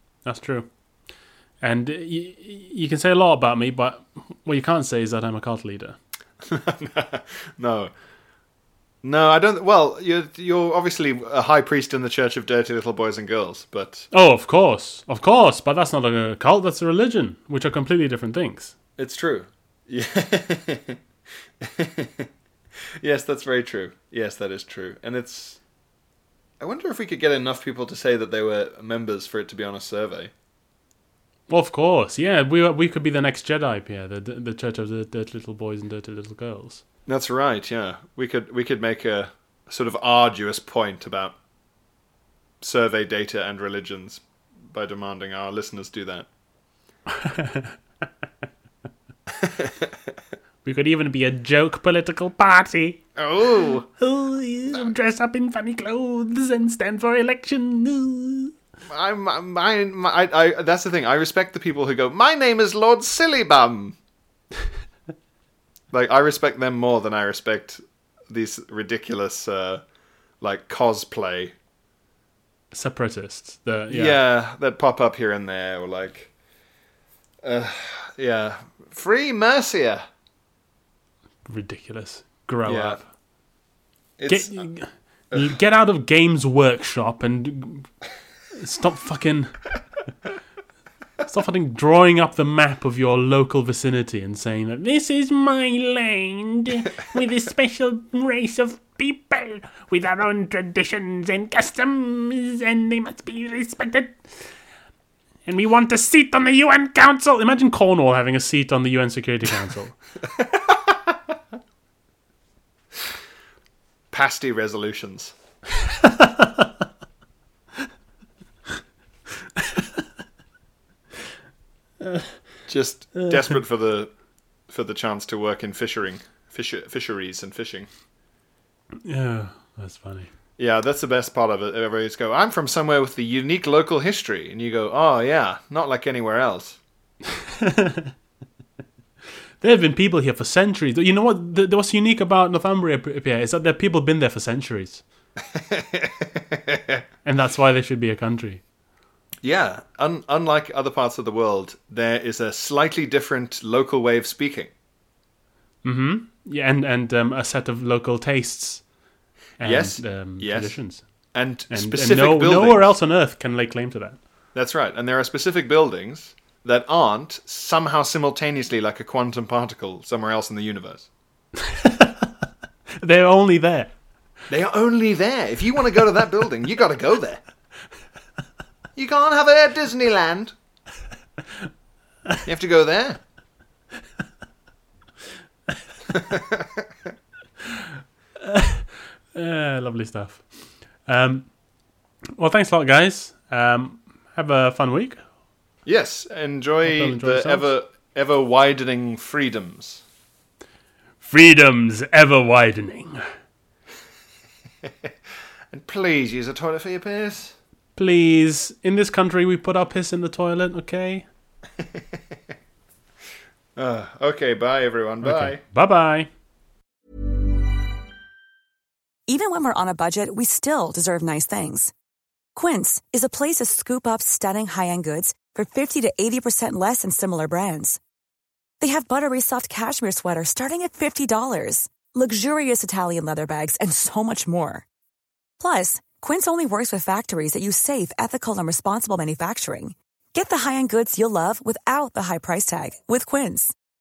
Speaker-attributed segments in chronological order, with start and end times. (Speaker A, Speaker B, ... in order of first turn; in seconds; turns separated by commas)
Speaker A: 0.2-0.7, Speaker A: 1.6-6.0, Speaker B: 6.4-7.9, Speaker B: 9.0-14.1, Speaker A: 14.1-18.7, Speaker B: 19.0-21.0, Speaker B: 21.6-22.3, Speaker B: 23.0-25.6, Speaker B: 26.6-30.3, Speaker A: 31.5-36.8, Speaker B: 37.1-41.4, Speaker B: 42.6-46.3, Speaker A: 47.2-47.8, Speaker B: 49.4-50.0, Speaker A: 50.6-53.1, Speaker B: 53.2-53.9, Speaker A: 54.0-58.5, Speaker B: 58.9-64.0, Speaker B: 65.9-69.8, Speaker B: 70.4-71.5, Speaker A: 72.7-74.2, Speaker B: 73.9-76.3, Speaker B: 77.4-80.1, Speaker A: 81.5-83.1, Speaker B: 82.7-83.1, Speaker B: 84.2-84.7, Speaker A: 84.3-87.9, Speaker B: 85.3-85.6, Speaker A: 88.6-89.5, Speaker A: 91.3-104.5, Speaker A: 105.5-110.0, Speaker B: 110.4-110.9, Speaker B: 114.1-115.3, Speaker A: 116.0-116.6, Speaker A: 122.0-122.3, Speaker B: 122.7-124.1, Speaker A: 123.2-123.5, Speaker B: 124.7-127.9, Speaker A: 129.1-130.3, Speaker B: 130.6-136.8, Speaker A: 137.6-138.1, Speaker A: 139.6-145.0, Speaker B: 145.5-147.0, Speaker A: 147.2-148.6, Speaker B: 149.4-154.7, Speaker A: 155.8-158.9, Speaker A: 159.6-164.2, Speaker B: 159.6-162.9, Speaker B: 164.5-171.1, Speaker A: 171.8-172.2, Speaker A: 173.0-173.9, Speaker B: 174.5-177.4, Speaker B: 179.0-180.6, Speaker B: 182.4-183.2, Speaker B: 186.1-186.8, Speaker A: 188.5-191.6, Speaker A: 192.4-195.2, Speaker B: 195.8-200.0, Speaker A: 196.8-197.7, Speaker A: 201.2-203.2, Speaker B: 205.7-207.6, Speaker A: 208.0-211.3, Speaker B: 213.8-215.6, Speaker A: 215.2-216.3, Speaker C: 219.3-221.9, Speaker C: 222.6-228.0, Speaker C: 228.8-234.8, Speaker C: 235.6-243.7